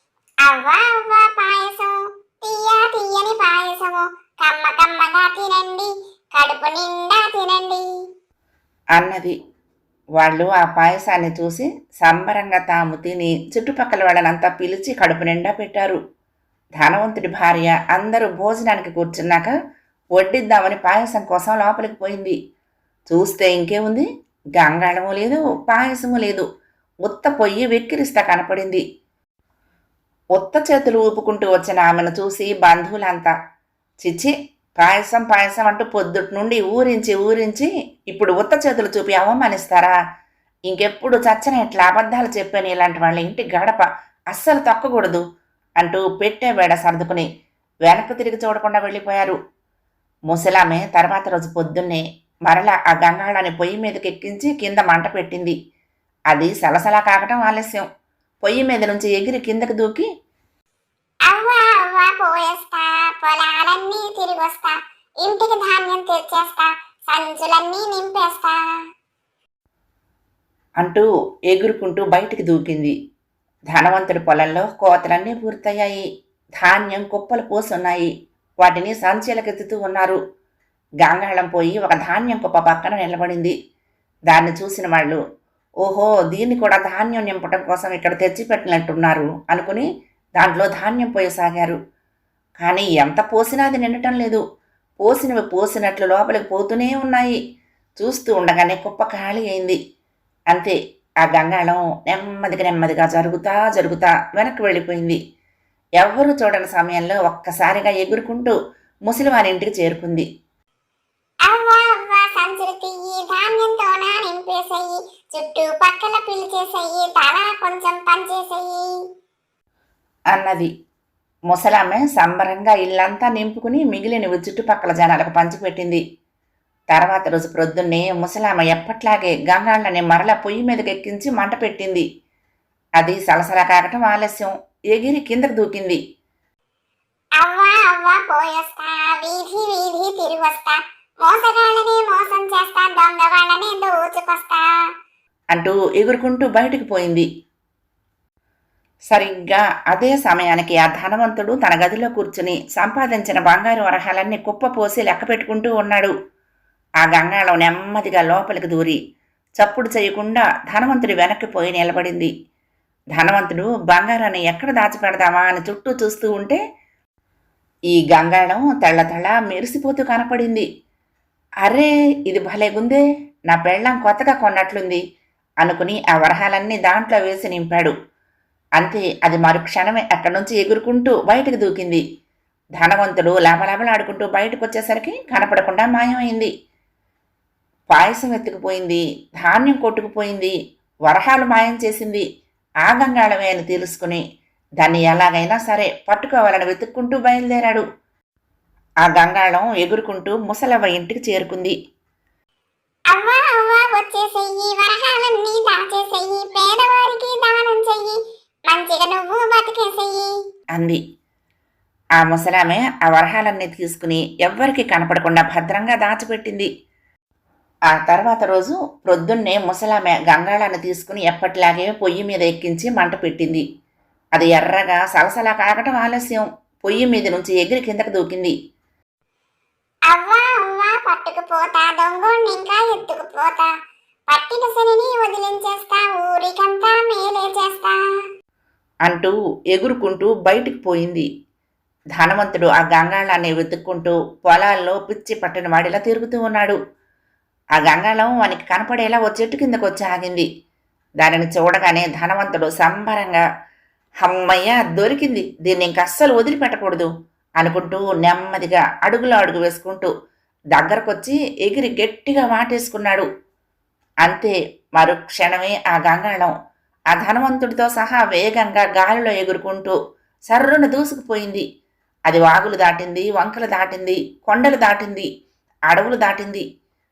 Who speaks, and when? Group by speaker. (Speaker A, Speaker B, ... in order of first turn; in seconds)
Speaker A: 0.5-7.8, 61.3-68.6, 111.5-118.9, 137.4-144.6, 203.1-210.3, 230.1-233.7, 234.3-238.0
Speaker B: 9.0-9.3, 10.2-16.0, 16.8-19.5, 20.1-22.4, 23.1-24.1, 24.6-26.5, 27.1-28.8, 30.4-33.3, 34.0-39.9, 40.7-45.2, 45.8-47.3, 47.9-49.4, 50.3-55.5, 56.3-57.9, 58.4-60.1, 70.8-72.9, 73.7-76.0, 76.6-78.1, 78.6-80.2, 81.0-83.5, 84.3-85.2, 85.8-89.8, 90.4-91.8, 92.6-94.4, 95.0-97.4, 98.0-99.8, 100.5-105.2, 106.0-108.5, 109.1-110.3, 120.3-120.7, 121.5-126.0, 126.9-132.1, 133.0-136.0, 145.5-147.3, 149.1-156.1, 157.0-159.0, 159.6-162.3, 163.2-166.6, 167.9-170.7, 171.7-175.0, 175.6-177.9, 178.8-182.0, 182.8-186.5, 187.9-190.5, 191.1-192.2, 192.8-194.2, 194.8-197.8, 199.1-201.8, 210.7-211.0, 212.2-216.7, 217.9-223.6, 224.3-228.6, 239.1-241.3, 242.2-246.8, 247.8-250.5, 251.2-253.4, 254.2-260.1, 260.7-263.3, 264.2-266.5, 267.1-270.0, 270.5-271.6, 272.3-275.3, 275.9-276.6